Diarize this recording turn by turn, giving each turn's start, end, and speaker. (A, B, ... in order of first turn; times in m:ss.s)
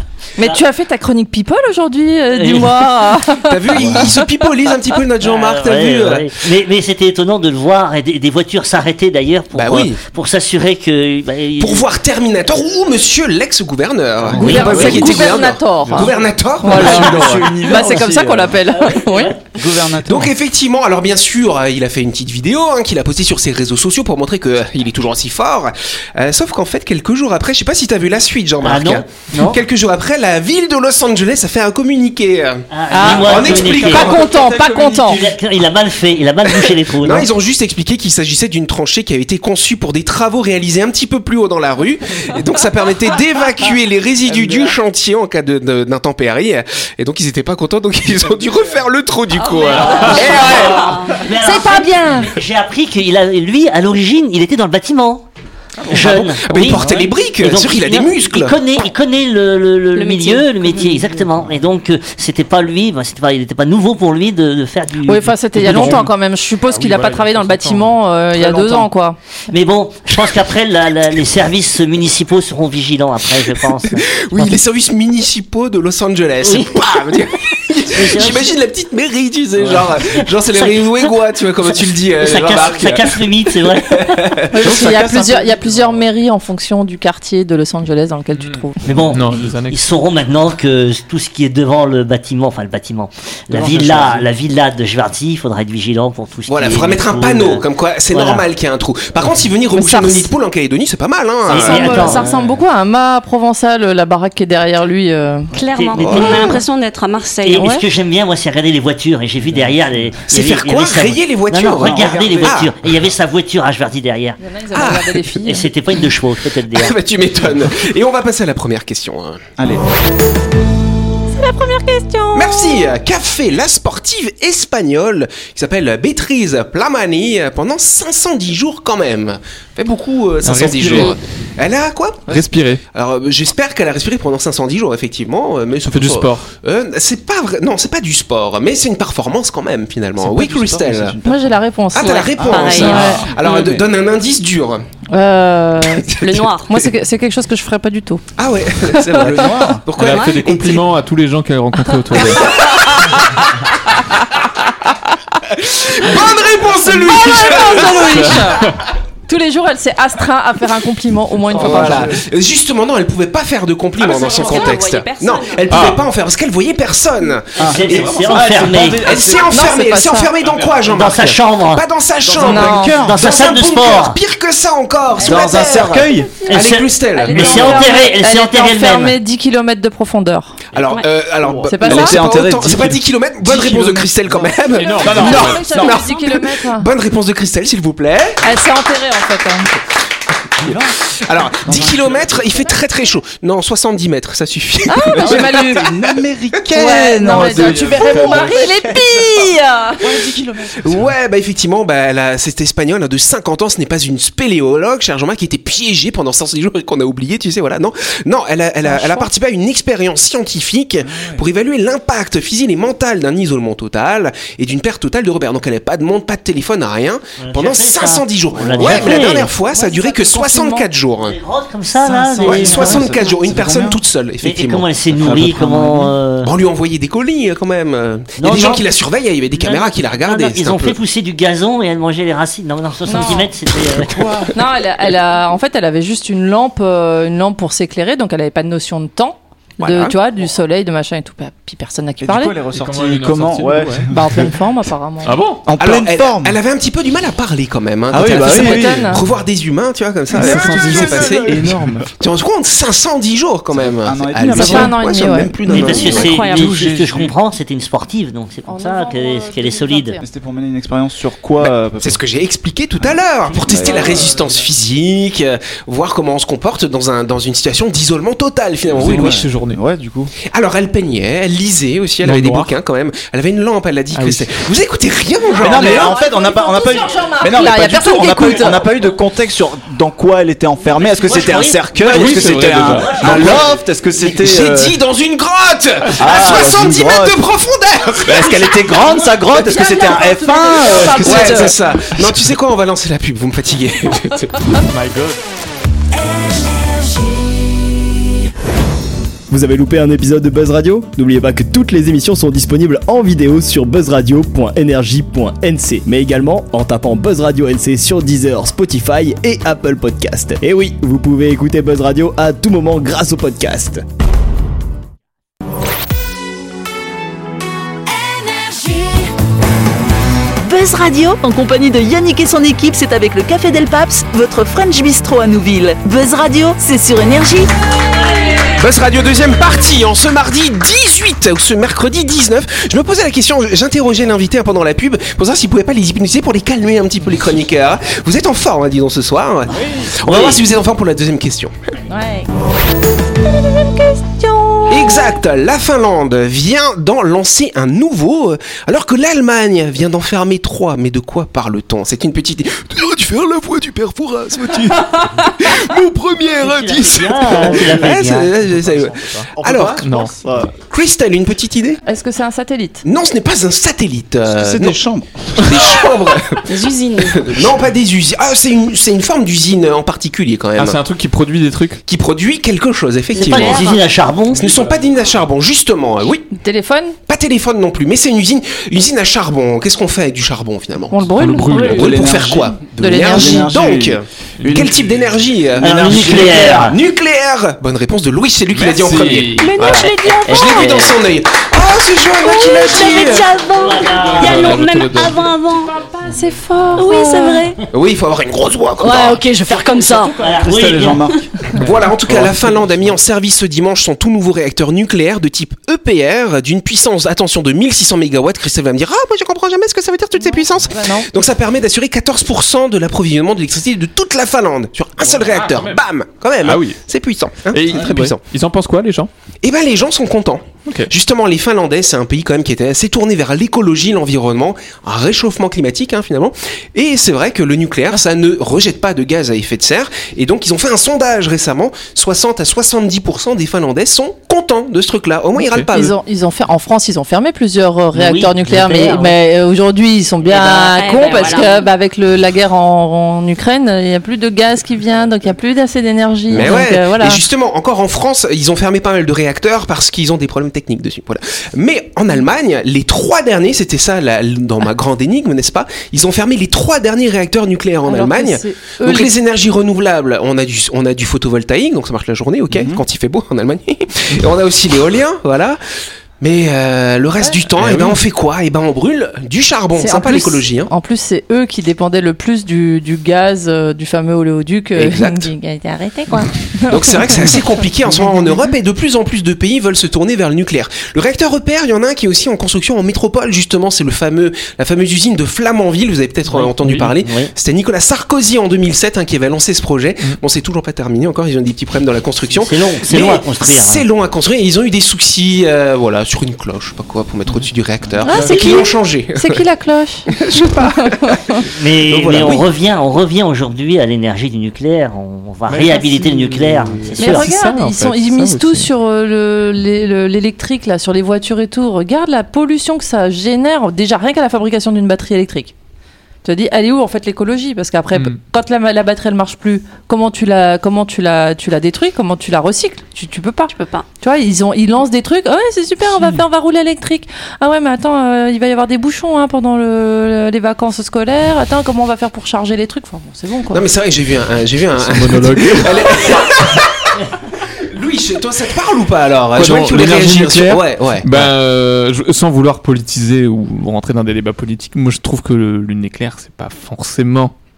0:00.4-0:04.2 A
0:02.3-0:02.7 B
0:03.5-0:06.3 C
0:05.2-0:11.9 B
0:09.5-0:10.0 C
0:11.6-0:17.5 C
0:14.3-0:15.2 D
0:14.3-0:15.1 B
0:14.3-0:19.5 A
0:16.7-0:18.6 D
0:18.7-0:19.4 B
0:19.4-0:20.3 D
0:20.0-0:34.3 C
0:28.6-0:29.6 B
0:32.7-0:34.2 B
0:32.9-0:35.2 A
0:33.9-0:35.3 D
0:34.9-0:37.3 B
0:36.5-0:50.9 C
0:49.7-0:55.2 B
0:50.0-0:51.2 E
0:50.1-0:52.3 A
0:55.9-1:06.1 B
0:55.9-0:58.5 C
0:56.6-0:57.1 D
0:59.9-1:00.9 E
1:05.0-1:09.2 A
1:05.6-1:06.0 F
1:06.7-1:08.0 F
1:09.5-1:14.5 B
1:14.1-1:24.5 C
1:16.4-1:16.9 B
1:17.9-1:18.5 B
1:19.6-1:21.1 B
1:22.2-1:24.2 B
1:24.5-1:28.8 A
1:24.6-1:26.0 D
1:28.3-1:29.8 F
1:28.8-1:38.4 B
1:33.5-1:34.1 D
1:36.5-1:42.2 C
1:39.7-1:40.3 A
1:41.5-1:42.5 B
1:41.5-1:45.5 A
1:45.5-1:47.7 E
1:45.6-1:46.6 B
1:46.0-1:46.6 C
1:46.2-1:46.6 A
1:47.4-1:54.4 B
1:47.6-1:47.9 A
1:50.3-1:52.7 C
1:51.8-1:52.6 D
1:54.4-1:55.7 A
1:54.7-1:55.2 C
1:55.4-1:56.9 B
1:56.7-1:59.4 C
2:01.3-2:02.9 A
2:02.3-2:12.4 C
2:10.4-2:11.2 F
2:12.3-2:12.8 F
2:12.9-2:21.2 C
2:15.8-2:16.5 F
2:20.2-2:21.6 D
2:21.2-2:23.3 A
2:21.9-2:24.8 C
2:22.4-2:23.8 D
2:22.4-2:23.0 E
2:25.1-2:28.2 A
2:26.0-2:26.5 C
2:26.2-2:26.7 E
2:28.4-2:30.8 C
2:28.9-2:29.5 A
2:29.2-2:29.8 D
2:30.0-2:32.5 F
2:30.0-2:30.4 E
2:32.3-2:32.6 C
2:32.4-2:33.2 A
2:35.5-2:38.4 C
2:36.1-2:38.8 A
2:38.0-2:38.7 F
2:39.3-2:42.1 A
2:41.5-2:42.2 D
2:41.5-2:48.4 C
2:44.0-2:45.7 E
2:45.7-2:46.1 F
2:47.6-2:49.0 B
2:47.6-2:49.5 D
2:49.0-2:57.9 C
2:49.5-2:50.3 A
2:50.8-2:51.8 B
2:52.2-2:53.3 D
2:52.4-2:53.1 A
2:53.0-2:54.2 B
2:55.2-2:56.3 D
2:55.2-3:00.6 A
2:56.5-2:59.2 B
3:00.7-3:08.4 C
3:01.4-3:05.8 D
3:01.6-3:02.2 A
3:04.7-3:05.8 F
3:04.7-3:06.9 A
3:08.4-3:09.7 A
3:10.6-3:11.0 D
3:11.2-3:15.9 C
3:11.6-3:12.5 D
3:12.6-3:13.0 A
3:14.9-3:15.9 A
3:15.2-3:19.2 D
3:16.7-3:20.3 A
3:17.2-3:18.9 F
3:20.0-3:21.1 D
3:20.8-3:41.4 C
3:28.8-3:29.3 A
3:31.0-3:31.4 D
3:37.4-3:39.5 B
3:38.8-3:39.1 D
3:39.0-3:40.9 A
3:41.2-3:43.1 B
3:42.0-3:44.0 D
3:42.4-3:44.9 C
3:44.4-3:46.5 B
3:45.2-3:46.1 D
3:46.4-3:51.0 C
3:48.4-3:48.8 B
3:49.5-3:54.2 B
3:53.0-3:53.5 A
3:54.4-4:02.6 A
3:59.8-4:00.2 C
4:02.2-4:04.5 D
4:02.7-4:04.1 F
4:04.1-4:05.5 A
4:05.2-4:05.6 F
4:05.6-4:06.6 D
4:05.8-4:16.4 C
4:08.1-4:09.2 D
4:08.3-4:09.2 A
4:10.3-4:12.1 D
4:10.4-4:11.6 F
4:13.7-4:17.3 D
4:14.5-4:15.6 A
4:15.7-4:20.2 B
4:16.1-4:16.4 A
4:16.3-4:16.6 E
4:18.6-4:20.3 A
4:20.2-4:22.2 D
4:21.6-4:29.4 C
4:23.6-4:24.4 D
4:28.9-4:29.8 F
4:29.0-4:30.3 D
4:30.4-4:36.2 C
4:32.2-4:32.7 F
4:34.1-4:34.5 F
4:35.6-4:45.0 D
4:35.6-4:38.9 A
4:41.0-4:43.6 B
4:42.0-4:43.6 F
4:43.2-4:43.6 C
4:44.2-4:48.5 C
4:46.2-4:47.3 D
4:48.2-4:51.7 D
4:49.5-4:51.8 A
4:51.1-4:54.7 C
4:54.8-4:55.4 F
4:59.5-5:14.0 G
5:20.6-5:27.7 H
5:28.8-5:41.7 C
5:40.0-5:40.6 B
5:42.1-5:42.5 A
5:43.6-5:45.3 A
5:44.9-6:00.1 C
5:56.6-5:58.5 B
5:57.6-5:58.0 D
5:59.2-5:59.5 F
5:59.6-6:00.7 D
6:00.0-6:00.3 F
6:00.8-6:02.0 C
6:02.0-6:03.0 A
6:03.0-6:05.0 C
6:04.5-6:05.8 D
6:05.5-6:11.0 C
6:06.7-6:07.5 E
6:10.8-6:12.0 F
6:12.0-6:14.0 C
6:13.3-6:14.6 B
6:13.4-6:14.0 E
6:14.5-6:16.5 C
6:14.5-6:15.1 F
6:16.5-6:17.2 A
6:17.3-6:33.5 C
6:21.1-6:22.2 A
6:21.4-6:22.2 F
6:21.7-6:25.1 D
6:23.0-6:23.8 A
6:24.6-6:25.2 F
6:25.8-6:26.9 D
6:25.8-6:27.0 B
6:28.7-6:30.1 F
6:29.6-6:31.2 E
6:30.5-6:31.1 B
6:32.4-6:35.9 E
6:33.7-6:34.8 B
6:34.2-6:35.5 F
6:36.0-6:37.7 A
6:37.0-6:37.9 E
6:37.9-6:39.4 C
6:39.0-6:40.4 E
6:40.3-6:41.3 B
6:40.6-6:41.5 D
6:41.7-6:58.4 C
6:42.2-6:43.1 D
6:50.4-6:51.3 A
6:55.2-6:56.0 F
6:56.6-6:57.0 F
6:57.7-6:59.3 F
6:59.6-7:16.1 C
7:15.6-7:15.9 F
7:15.9-7:27.4 A
7:18.1-7:19.3 B
7:20.4-7:21.9 E
7:26.5-7:45.8 C
7:38.0-7:39.3 A
7:42.7-7:43.0 D
7:46.4-7:50.9 C
7:47.7-7:48.2 F
7:50.0-7:57.6 A
7:55.0-7:55.5 C
7:56.9-8:19.6 C
7:58.1-7:58.6 A
8:06.5-8:07.5 B
8:06.8-8:07.1 F
8:12.5-8:14.0 B
8:18.2-8:21.6 A
8:18.3-8:18.7 F
8:20.3-8:22.7 C
8:21.7-8:27.5 B
8:25.7-8:28.9 F
8:27.2-8:35.7 A
8:36.4-8:53.9 A
8:38.1-8:38.4 F
8:43.7-8:44.0 E
8:53.7-8:57.1 C
8:55.0-8:56.1 F
8:57.7-9:01.5 C
8:59.5-9:07.5 F